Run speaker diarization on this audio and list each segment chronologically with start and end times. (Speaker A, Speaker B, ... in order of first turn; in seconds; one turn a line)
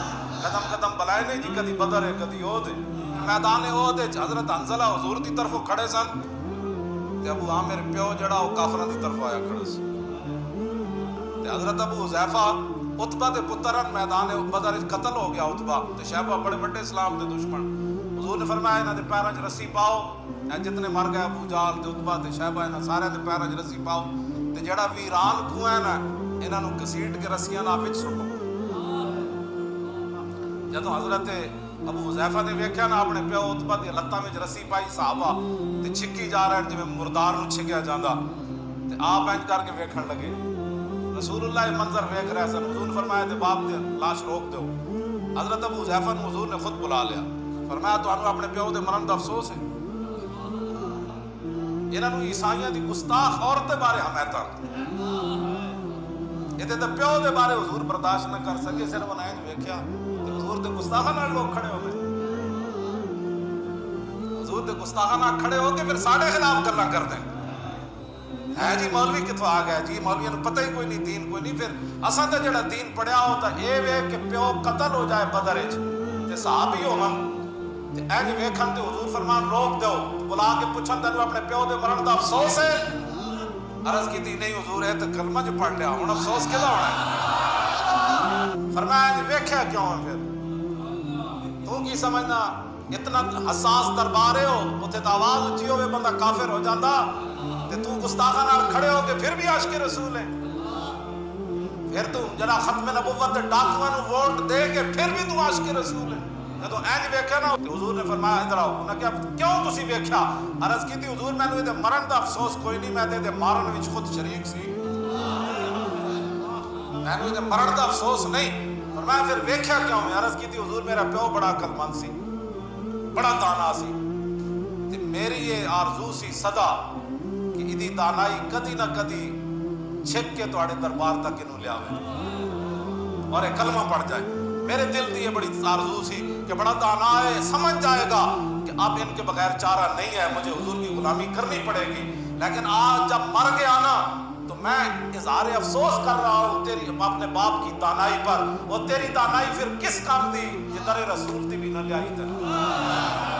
Speaker A: 0.4-6.1
Speaker A: 7.2-9.8
Speaker A: 11.4-28.3
Speaker A: 30.7-38.2
Speaker A: 38.9-40.4
Speaker A: 41.1-44.7
Speaker A: 45.4-49.6
Speaker A: 51.9-54.6
Speaker A: 56.6-62.0
Speaker A: 64.4-67.3
Speaker A: 68.5-77.3
Speaker A: 77.9-82.9
Speaker A: 83.8-87.1
Speaker A: 88.7-90.3
Speaker A: 91.6-97.2
Speaker A: 97.7-100.3
Speaker A: 101.9-114.7
Speaker A: 117.0-122.1
Speaker A: 123.1-124.0
Speaker A: 124.9-126.8
Speaker A: 127.5-129.4
Speaker A: 130.0-132.0
Speaker A: 133.3-152.5